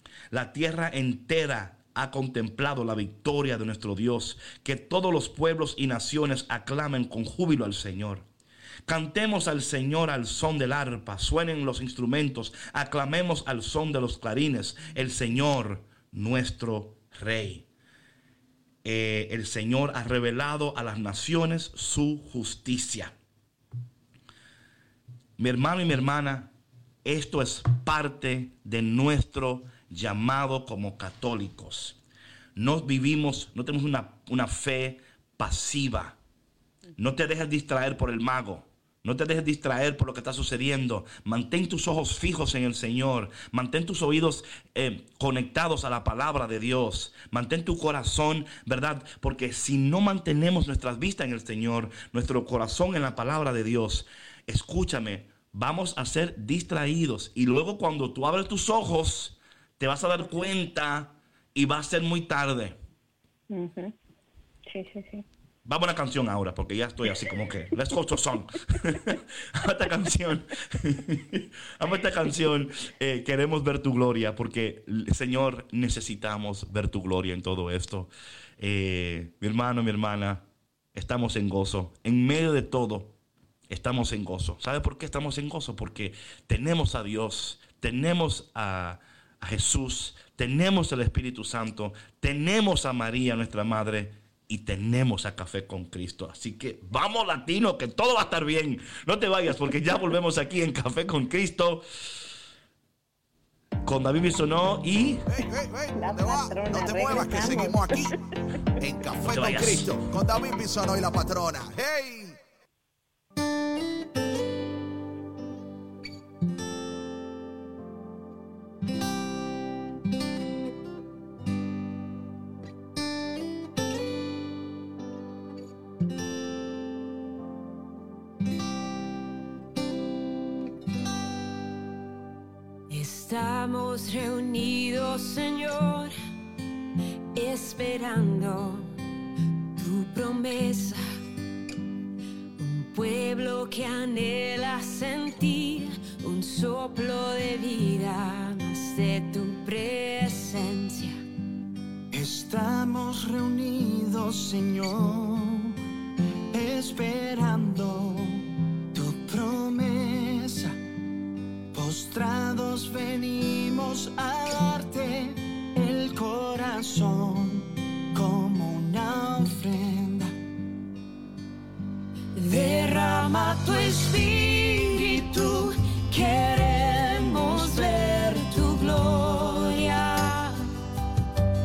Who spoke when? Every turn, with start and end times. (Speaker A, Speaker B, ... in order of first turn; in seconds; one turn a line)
Speaker A: 0.3-8.2
Speaker A: 8.8-17.6
Speaker A: 18.8-23.1
Speaker A: 25.4-26.5
Speaker A: 27.0-32.0
Speaker A: 32.5-36.2
Speaker A: 37.0-62.8
Speaker B: 63.5-63.9
Speaker B: 64.7-65.2
Speaker A: 65.7-83.1
Speaker A: 83.7-101.8
Speaker A: 103.8-105.2
Speaker C: 105.3-108.2
Speaker B: 105.9-108.0
Speaker C: 108.8-112.4
Speaker A: 109.3-110.0
Speaker D: 132.9-136.1
Speaker D: 137.3-138.9
Speaker D: 139.8-141.0
Speaker D: 142.6-151.2
Speaker E: 152.1-155.8
Speaker E: 156.5-160.8
Speaker E: 161.7-170.3
Speaker D: 172.3-180.6